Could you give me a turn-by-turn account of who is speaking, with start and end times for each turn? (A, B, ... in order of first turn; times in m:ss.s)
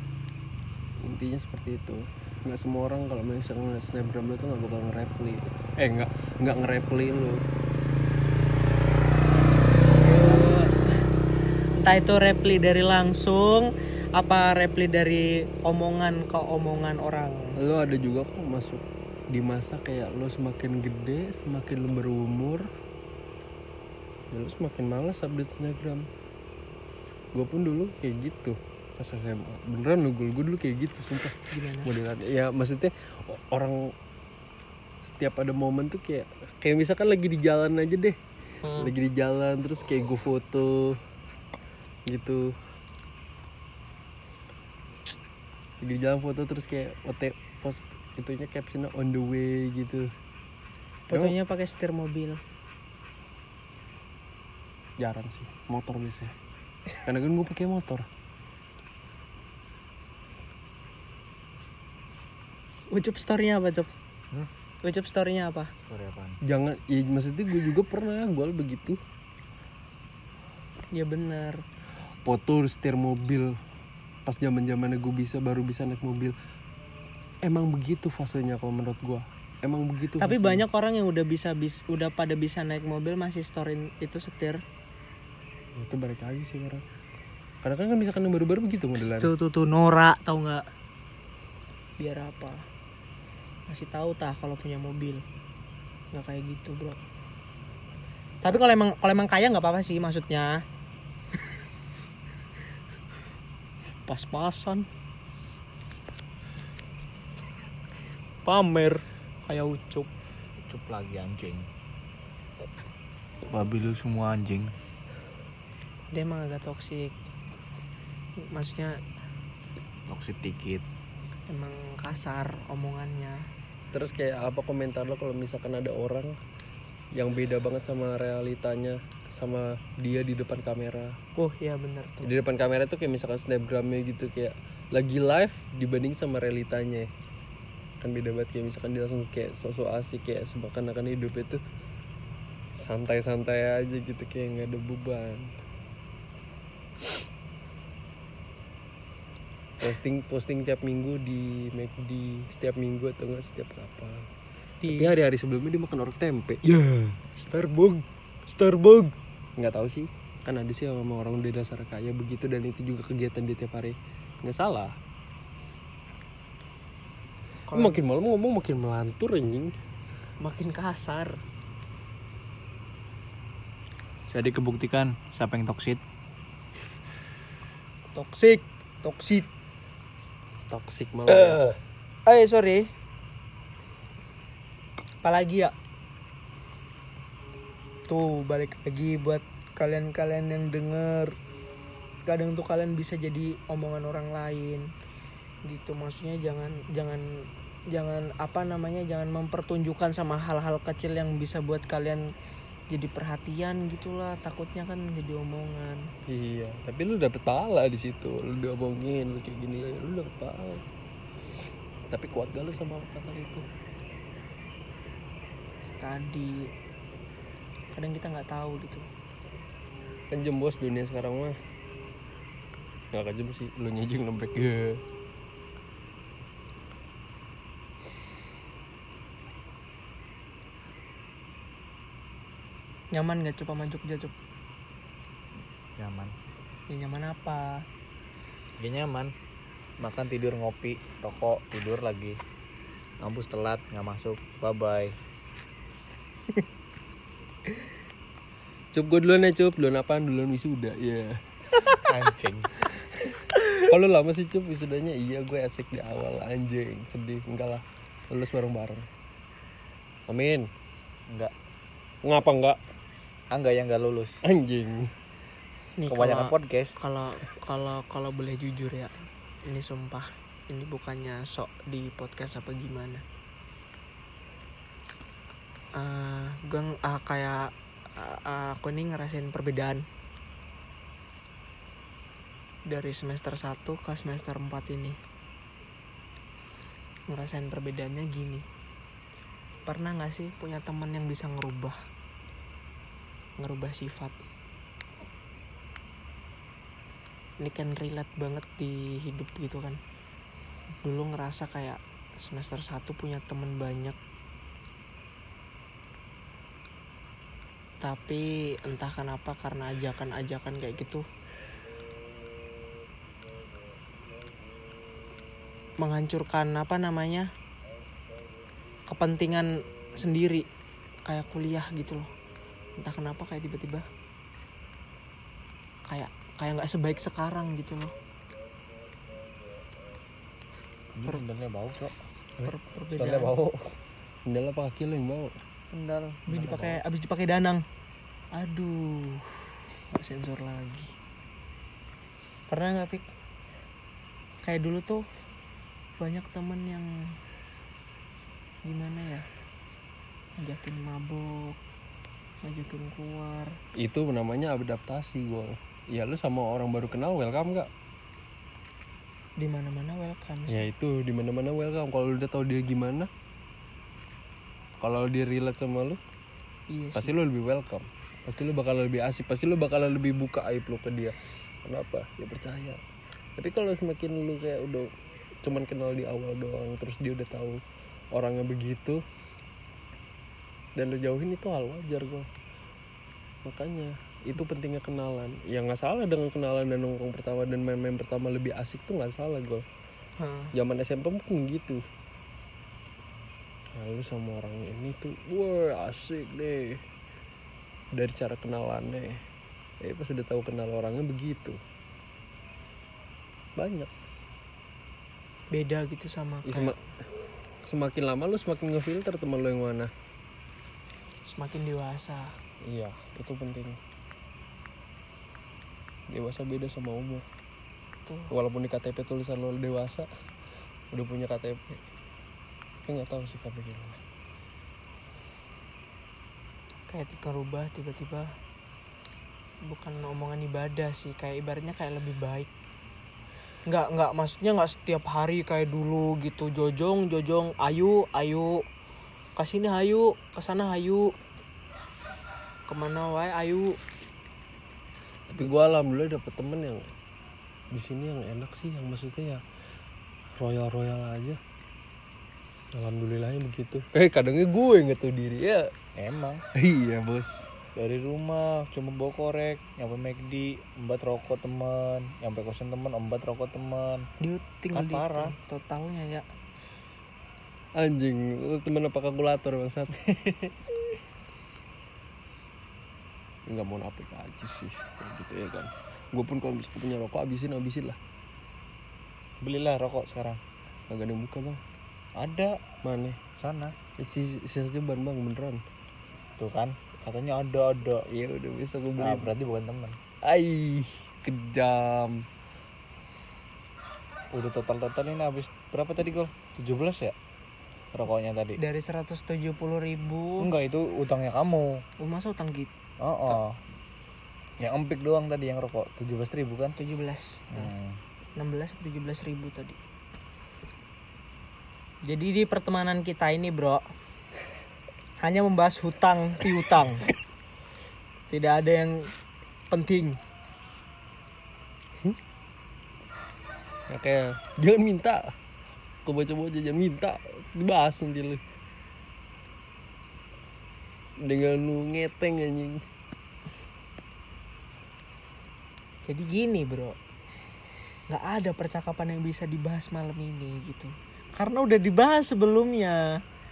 0:01.0-0:07.4 A
0:10.0-0:10.8 B
0:11.8-0:17.5 B
0:17.6-0:22.6 A
0:24.3-0:26.0 A
0:27.3-0:33.9 A
0:31.5-0:31.9 B
0:35.0-0:38.2 A
0:38.6-0:38.9 B
0:38.8-0:41.0 A
0:42.1-0:42.5 A
0:45.8-0:50.1 A
0:51.1-0:52.4 B
0:55.0-0:56.3 A
0:57.0-0:58.1 A
1:02.9-1:03.9 B
1:04.8-1:05.7 B
1:05.9-1:06.4 C
1:06.4-1:09.0 A
1:10.9-1:11.6 B
1:12.2-1:13.5 A
1:14.2-1:16.3 A
1:17.4-1:20.6 A
1:20.2-1:24.6 B
1:25.8-1:26.8 A
1:27.6-1:29.3 A
1:29.2-1:30.6 B
1:32.0-1:32.6 B
1:33.7-1:35.2 B
1:36.1-1:37.0 B
1:38.4-1:40.6 B
1:44.1-1:44.9 B
1:48.4-1:50.1 B
1:50.7-1:51.7 C
1:53.4-1:54.7 C
1:56.1-1:57.1 B
1:58.5-1:59.0 B
2:00.1-2:00.8 C
2:01.5-2:03.4 B
2:03.9-2:06.3 A
2:07.1-2:11.2 A
2:11.4-2:12.3 B
2:12.2-2:17.1 A
2:18.0-2:21.6 A
2:22.8-2:25.5 A
2:29.8-2:34.3 A
2:34.8-2:35.2 B
2:34.9-2:36.6 A
2:36.6-2:39.1 B
2:39.6-2:44.9 A
2:47.7-2:48.0 B
2:47.7-2:49.7 A
2:50.4-2:51.4 B
2:54.3-2:56.0 C
2:58.1-2:59.5 B
3:00.7-3:01.7 A
3:01.3-3:01.6 B
3:02.3-3:02.9 B
3:05.2-3:05.7 B
3:08.1-3:11.3 B
3:12.3-3:14.9 B
3:15.6-3:22.3 B
3:22.9-3:26.0 B
3:26.3-3:30.8 A
3:32.1-3:33.6 A
3:36.0-3:36.7 B
3:37.9-3:39.0 B
3:40.3-3:41.6 A
3:43.1-3:45.0 A
3:53.1-3:54.3 B
3:56.0-3:56.3 C
3:56.9-3:57.8 B
3:58.8-3:59.3 C
4:00.0-4:02.4 C
4:03.2-4:05.2 C
4:08.9-4:11.4 A
4:12.0-4:12.7 C
4:13.8-4:19.1 A
4:20.3-4:20.7 A
4:22.2-4:22.8 A
4:23.5-4:24.4 C
4:24.4-4:25.1 A
4:26.0-4:33.2 B
4:26.1-4:27.0 C
4:36.0-4:40.0 B
4:42.9-4:45.2 B
4:47.3-4:48.6 B
4:49.8-4:52.0 B
4:53.6-4:54.4 B
4:57.6-5:00.0 B
5:01.0-5:04.2 B
5:08.0-5:11.2 B
5:16.0-5:17.5 B
5:19.1-5:20.6 B
5:21.2-5:22.3 B
5:23.0-5:24.1 B
5:26.1-5:28.1 B
5:31.1-5:32.2 C
5:32.6-5:33.5 B
5:33.2-5:33.9 A
5:34.4-5:35.6 A
5:35.9-5:37.8 B
5:36.5-5:37.0 C
5:38.5-5:41.1 B
5:42.7-5:43.2 B
5:44.6-5:45.2 B
5:46.2-5:47.4 B
5:48.8-5:49.4 B
5:50.6-5:51.8 B
5:52.6-5:53.8 B
5:54.0-5:57.9 A
5:59.6-6:00.9 B
6:00.7-6:03.3 A
6:05.0-6:06.2 A
6:06.9-6:07.3 B
6:07.1-6:13.0 A
6:13.6-6:15.1 A
6:15.6-6:19.2 A
6:21.0-6:22.5 A
6:23.6-6:29.8 A
6:30.4-6:30.7 B
6:30.7-6:32.0 A
6:33.9-6:37.0 A
6:38.1-6:39.4 A
6:40.0-6:41.8 A
6:43.8-6:44.1 A
6:45.7-6:47.0 B
6:46.7-6:47.0 A
6:47.8-6:50.1 A
6:51.4-6:52.5 B
6:52.8-6:54.0 A
6:56.3-6:57.4 A
6:58.2-6:58.5 B
6:58.5-7:00.3 A
7:01.1-7:02.0 A
7:03.0-7:04.2 A
7:07.1-7:08.5 B
7:09.9-7:12.7 B
7:13.9-7:18.8 B
7:19.6-7:21.3 B
7:22.9-7:24.0 B
7:25.5-7:27.1 A
7:27.9-7:29.6 A
7:30.6-7:31.6 A
7:32.9-7:35.9 A
7:36.2-7:36.6 C
7:36.7-7:37.6 A
7:38.0-7:44.2 C
7:44.4-7:46.4 B
7:44.9-7:45.5 C
7:48.0-7:50.2 A
7:53.7-7:58.2 A
7:59.6-8:00.6 C
8:01.1-8:01.8 A
8:02.4-8:02.8 C
8:03.0-8:03.4 A
8:03.6-8:03.9 C
8:04.2-8:05.8 A
8:06.6-8:08.2 C
8:08.3-8:09.5 A
8:09.2-8:10.2 C
8:10.4-8:12.4 A
8:14.5-8:17.3 C
8:18.1-8:18.8 C
8:18.8-8:20.7 B
8:20.6-8:22.0 C
8:22.2-8:22.9 B
8:23.2-8:23.8 C
8:24.8-8:27.0 C
8:27.0-8:27.9 B
8:27.7-8:28.2 C
8:28.6-8:30.0 B
8:32.2-8:34.0 B
8:35.4-8:37.3 B
8:38.5-8:39.3 B
8:39.9-8:40.4 B
8:44.1-8:45.5 A
8:46.2-8:48.6 A
8:51.4-8:53.0 A
8:56.2-8:57.2 B
8:58.3-9:03.4 B